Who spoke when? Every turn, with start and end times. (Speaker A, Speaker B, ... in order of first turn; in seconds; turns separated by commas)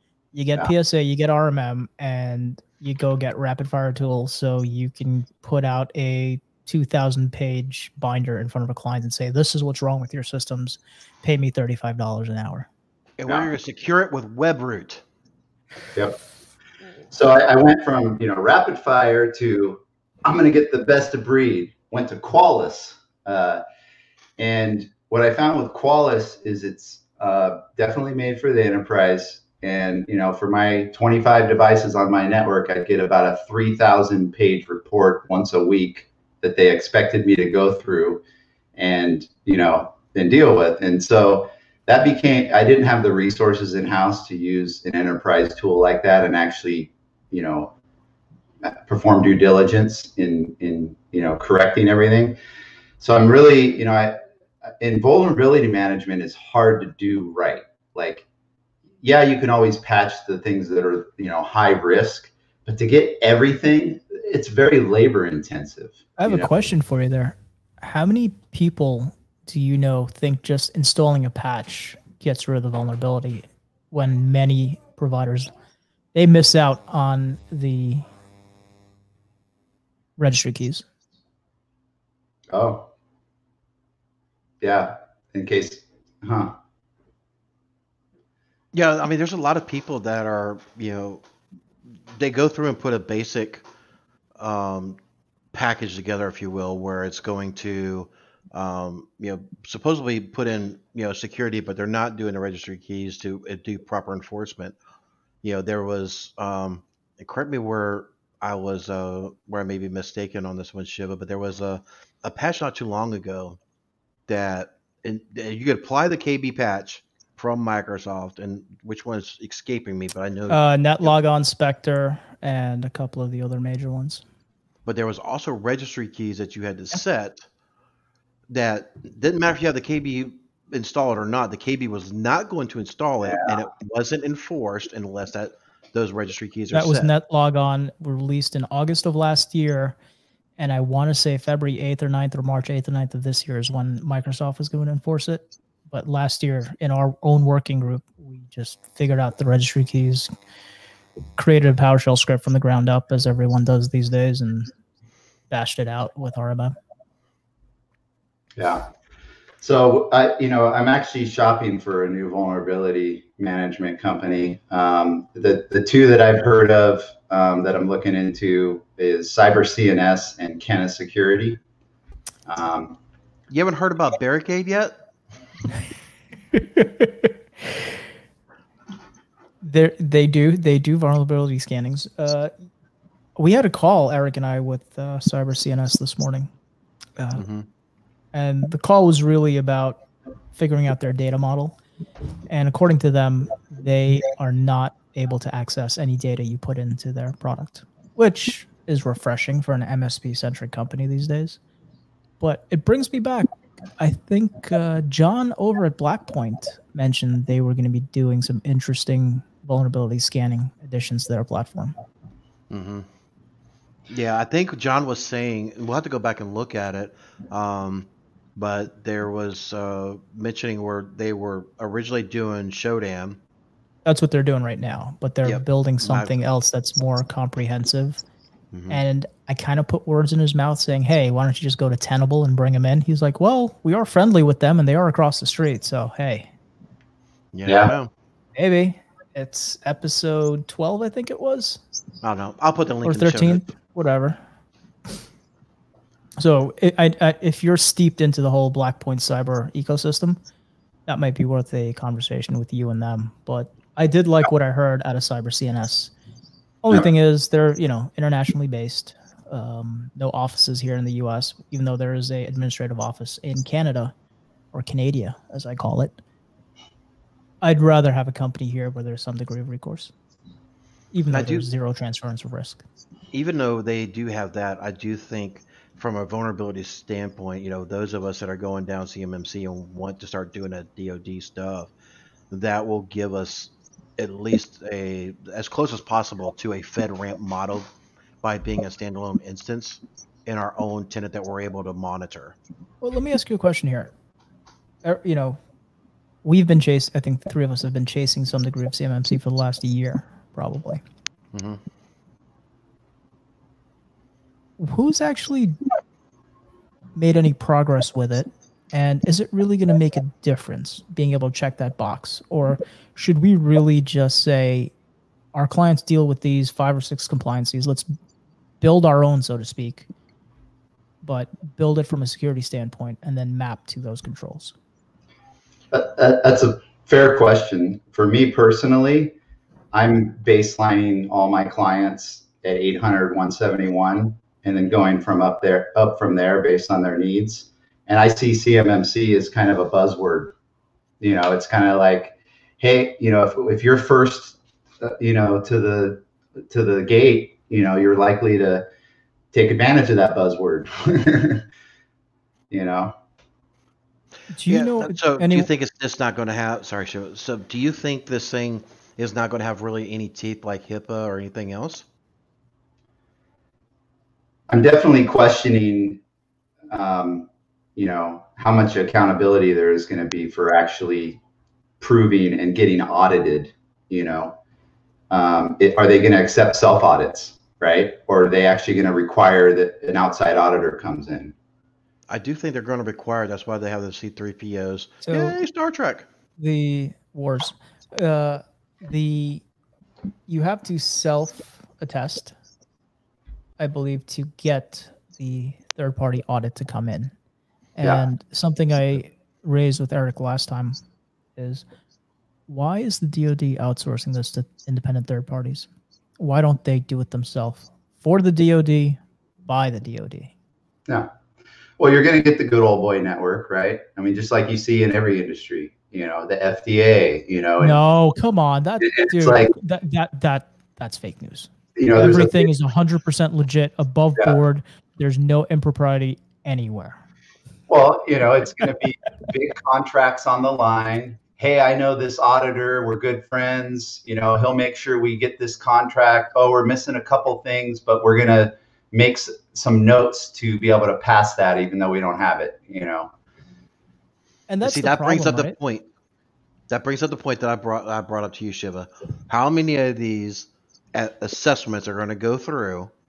Speaker A: 0.3-12.7, Speaker B: 13.2-15.0, Speaker C: 17.1-23.6, Speaker C: 24.4-38.2, Speaker C: 38.8-47.7, Speaker C: 48.6-52.4, Speaker C: 53.0-54.2, Speaker C: 54.8-58.2, Speaker C: 59.0-66.5, Speaker A: 66.2-75.5, Speaker A: 76.1-78.0, Speaker A: 80.2-80.8, Speaker C: 82.5-82.9, Speaker C: 84.6-86.5, Speaker B: 88.7-91.2, Speaker B: 92.2-93.7, Speaker B: 94.4-95.0, Speaker B: 95.5-104.8, Speaker B: 105.4-113.6, Speaker B: 114.3-121.1, Speaker A: 120.5-124.2, Speaker B: 124.8-127.5, Speaker B: 128.5-137.1, Speaker A: 136.7-140.0, Speaker A: 140.6-150.3, Speaker A: 151.4-154.7, Speaker A: 155.5-156.8, Speaker C: 158.6-158.9, Speaker C: 159.6-171.6, Speaker C: 172.5-173.0, Speaker B: 173.5-174.9, Speaker A: 176.5-177.3, Speaker A: 179.6-182.5, Speaker A: 183.4-186.5, Speaker B: 187.4-187.7, Speaker A: 188.3-190.0, Speaker A: 190.6-191.8, Speaker A: 192.5-201.6, Speaker A: 202.4-211.9, Speaker B: 212.7-213.1, Speaker B: 214.1-223.4, Speaker A: 224.1-228.2, Speaker B: 225.4-226.3, Speaker B: 228.7-229.0, Speaker A: 228.9-236.5, Speaker B: 237.5-238.1, Speaker C: 237.7-237.9, Speaker A: 238.6-241.8, Speaker B: 242.2-243.7, Speaker A: 243.1-244.4, Speaker A: 246.4-250.4, Speaker A: 251.1-256.1, Speaker A: 256.8-264.1, Speaker A: 264.7-266.2, Speaker A: 267.6-270.1, Speaker A: 271.1-272.8, Speaker B: 271.3-271.7, Speaker B: 273.3-281.9, Speaker B: 282.5-287.9, Speaker B: 288.4-292.6, Speaker A: 293.0-294.1, Speaker A: 295.0-295.6, Speaker A: 296.4-301.0, Speaker B: 301.5-301.8, Speaker A: 304.8-305.8, Speaker A: 307.2-314.9, Speaker A: 315.5-318.1, Speaker A: 318.8-320.1, Speaker A: 321.2-324.8, Speaker C: 325.9-329.4, Speaker C: 329.9-340.6, Speaker C: 341.2-348.8, Speaker C: 349.5-351.6, Speaker C: 352.7-353.1, Speaker A: 354.5-355.7, Speaker B: 354.7-362.1, Speaker C: 364.7-366.2, Speaker C: 366.9-371.4, Speaker C: 372.0-374.6, Speaker C: 375.3-381.5, Speaker B: 382.3-386.3, Speaker A: 385.2-385.6, Speaker A: 386.6-389.6, Speaker A: 390.5-392.6, Speaker A: 393.8-397.3, Speaker A: 398.0-401.0, Speaker C: 398.0-398.3, Speaker A: 401.6-401.9, Speaker A: 402.7-410.5, Speaker C: 412.0-418.0, Speaker A: 417.8-427.2, Speaker C: 419.0-419.7, Speaker C: 422.0-422.7, Speaker C: 427.9-443.3, Speaker A: 444.7-445.8, Speaker B: 444.8-446.1, Speaker B: 446.9-453.1